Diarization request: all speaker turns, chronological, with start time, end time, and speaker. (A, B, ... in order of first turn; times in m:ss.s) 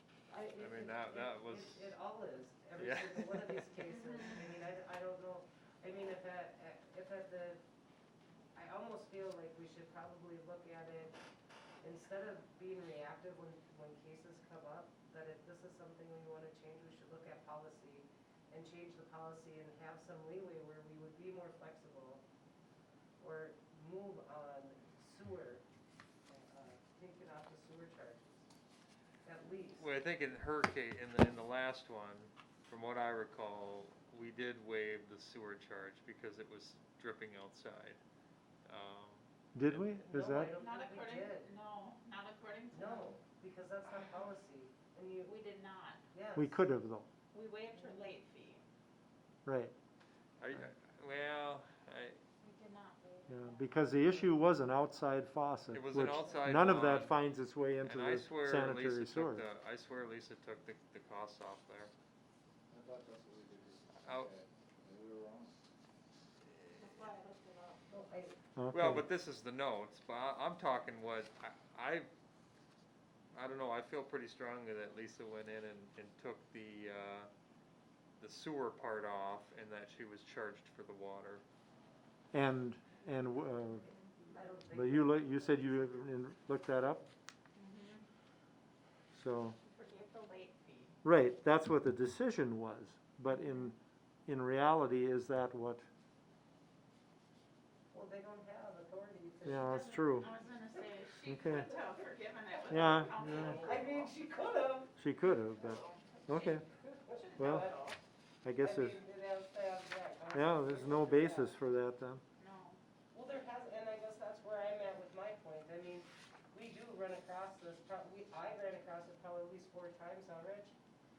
0:00.3-0:07.6 A
0:00.6-0:02.0 B
0:02.8-0:03.7 B
0:03.9-0:04.5 C
0:08.6-0:11.2 A
0:11.8-0:22.2 A
0:23.2-0:25.6 A
0:26.3-0:28.5 A
0:29.2-0:29.9 A
0:29.8-0:38.0 B
0:38.7-0:39.9 B
0:39.6-0:40.6 D
0:40.0-0:41.5 A
0:40.6-0:43.2 C
0:42.7-0:45.4 A
0:45.2-0:46.0 C
0:46.1-0:46.6 A
0:46.4-0:47.1 D
0:47.3-0:48.6 C
0:49.5-0:49.7 D
0:50.4-0:52.2 B
0:52.4-0:54.0 C
0:53.3-0:59.4 D
0:55.7-0:57.2 B
0:57.8-1:01.9 B
1:02.7-1:05.5 E
1:04.0-1:04.3 B
1:06.5-1:07.1 B
1:06.8-1:07.8 C
1:07.9-1:08.4 A
1:08.6-1:09.0 D
1:08.7-1:12.1 B
1:13.3-1:17.3 B
1:18.2-1:21.4 B
1:22.3-1:23.9 D
1:23.8-1:24.5 C
1:24.3-1:26.2 A
1:24.7-1:27.1 D
1:27.6-1:28.1 C
1:29.1-1:29.6 D
1:29.7-1:31.0 C
1:31.0-1:35.8 D
1:33.3-1:33.7 C
1:37.9-1:40.4 A
1:39.4-1:40.3 D
1:39.6-1:44.1 C
1:41.2-1:41.7 D
1:42.7-1:43.6 D
1:42.7-1:44.9 A
1:45.0-1:46.6 D
1:45.4-1:48.0 C
1:46.8-1:47.8 A
1:47.4-1:47.7 D
1:48.4-1:49.0 D
1:48.6-1:51.6 A
1:50.3-1:52.2 D
1:52.4-1:52.8 C
1:53.1-2:00.7 A